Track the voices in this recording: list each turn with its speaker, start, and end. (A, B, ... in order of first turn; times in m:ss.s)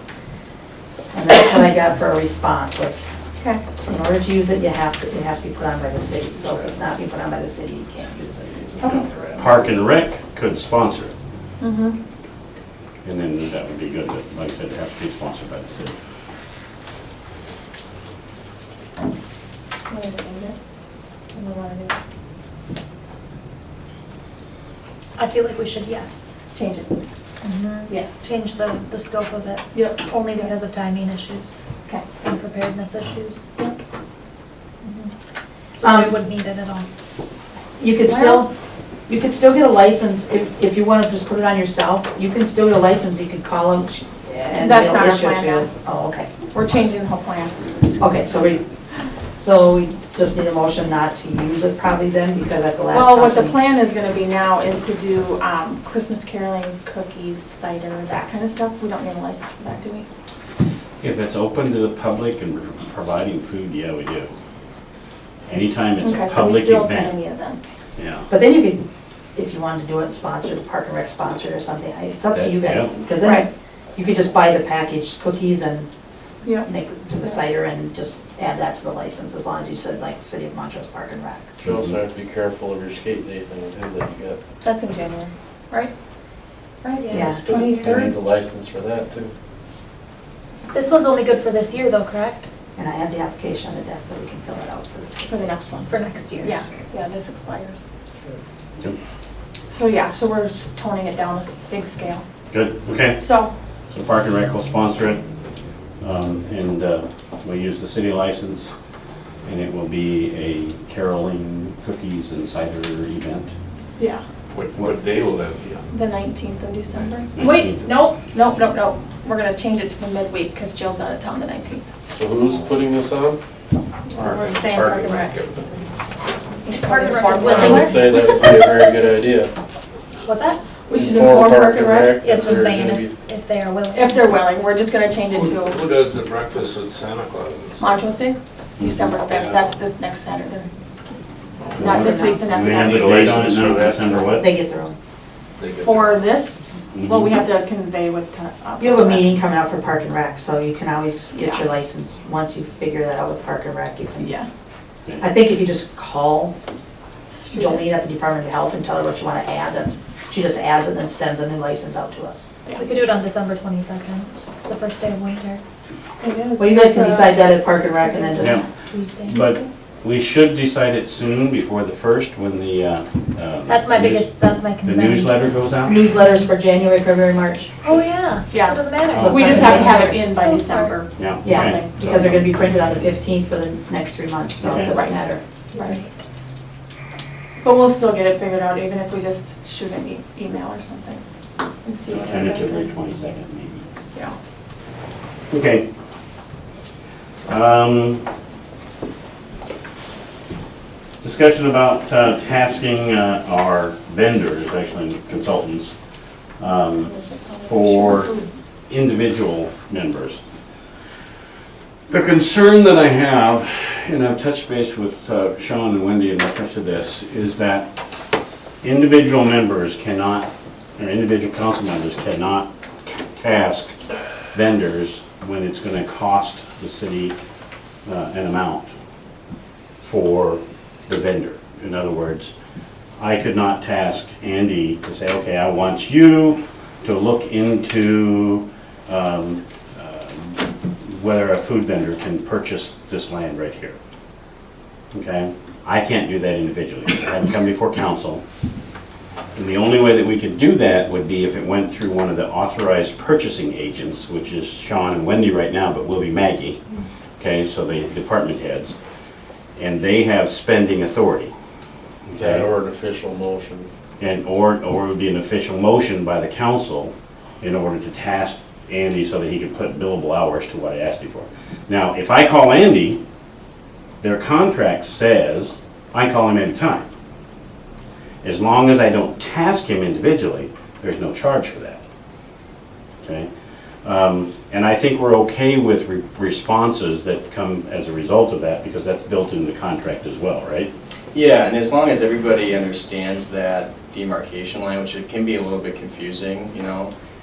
0:01.1-0:03.1 A
0:03.4-0:03.6 B
0:03.8-0:08.6 A
0:06.4-0:06.9 C
0:08.6-0:09.6 C
0:09.3-0:11.1 D
0:11.6-0:12.0 B
0:13.0-0:15.9 D
0:19.9-0:20.6 B
0:21.3-0:21.8 B
0:25.2-0:26.5 E
0:26.5-0:27.0 B
0:27.4-0:31.6 E
0:27.9-0:28.1 B
0:29.7-0:30.5 B
0:31.8-0:32.1 B
0:32.1-0:33.4 E
0:35.8-0:36.9 E
0:35.8-0:36.1 A
0:37.8-0:38.5 A
0:38.1-0:38.5 B
0:39.1-0:46.3 A
0:44.6-0:45.7 B
0:46.5-0:47.7 B
0:48.0-0:48.7 A
0:49.4-0:53.6 A
0:52.9-1:00.1 B
1:01.0-1:04.3 D
1:05.5-1:07.1 D
1:06.0-1:07.6 B
1:08.0-1:08.3 D
1:08.3-1:08.8 A
1:09.3-1:15.9 A
1:12.3-1:12.9 D
1:13.2-1:13.5 B
1:16.4-1:16.7 B
1:16.6-1:21.6 A
1:21.6-1:22.0 D
1:21.6-1:24.4 F
1:24.6-1:25.9 B
1:26.8-1:28.1 B
1:27.0-1:27.9 E
1:27.1-1:27.4 A
1:27.2-1:29.3 F
1:30.7-1:32.4 E
1:32.8-1:35.3 A
1:35.2-1:37.8 B
1:35.9-1:36.5 E
1:39.7-1:42.2 B
1:42.5-1:43.2 D
1:43.2-1:43.5 B
1:43.9-1:45.2 D
1:46.0-1:48.7 D
1:49.4-1:53.5 D
1:54.0-1:54.2 B
1:54.5-1:55.9 G
1:55.9-2:01.8 B
1:57.4-1:57.8 D
2:02.1-2:03.4 F
2:04.1-2:05.4 B
2:04.2-2:05.7 G
2:06.6-2:07.9 B
2:06.7-2:08.6 E
2:07.5-2:09.5 F
2:10.2-2:10.8 E
2:10.8-2:12.1 B
2:11.0-2:13.1 F
2:12.1-2:14.3 E
2:13.9-2:15.8 B
2:15.3-2:18.0 G
2:17.8-2:20.7 B
2:18.8-2:19.7 G
2:21.6-2:24.2 G
2:21.8-2:24.5 D
2:21.8-2:23.4 B
2:21.8-2:22.3 A
2:24.2-2:25.0 A
2:25.6-2:26.2 G
2:25.8-2:29.3 B
2:26.9-2:27.3 D
2:28.8-2:34.4 A
2:31.3-2:31.6 B
2:34.2-2:34.5 B
2:35.2-2:36.5 A
2:37.3-2:37.8 B
2:37.5-2:42.4 A
2:42.8-2:45.6 E
2:46.2-2:47.4 B
2:46.6-2:48.6 A
2:48.0-2:48.4 B
2:48.4-2:48.6 D
2:48.5-2:49.4 E
2:49.2-2:56.0 D
2:53.7-2:55.4 E
2:55.8-2:57.7 A
2:57.8-3:01.0 E
2:58.5-3:02.0 B
2:59.1-3:00.1 D
2:59.2-2:59.8 A
3:01.2-3:02.4 D
3:01.4-3:05.4 A
3:04.6-3:05.0 D
3:04.9-3:05.2 B
3:05.7-3:06.1 E
3:07.6-3:11.2 B
3:11.8-3:12.9 B
3:12.1-3:13.8 D
3:14.1-3:14.4 B
3:15.5-3:15.9 D
3:17.4-3:18.2 D
3:21.2-3:25.9 D
3:26.6-3:27.1 D
3:27.0-3:28.5 B
3:27.6-3:28.4 D
3:28.9-3:30.4 D
3:32.1-3:37.9 D
3:38.8-3:43.9 D
3:44.5-3:47.3 D
3:48.0-3:48.9 D
3:50.0-3:52.5 D
3:53.2-4:04.0 D
4:05.1-4:08.4 D
4:09.5-4:16.8 D
4:17.4-4:18.9 D
4:19.8-4:21.5 D
4:22.3-4:22.7 D
4:22.4-4:23.9 F
4:24.2-4:33.2 D
4:34.2-4:37.0 D
4:38.4-4:42.0 D
4:43.2-4:43.5 D
4:44.0-4:50.9 D
4:51.3-4:57.1 C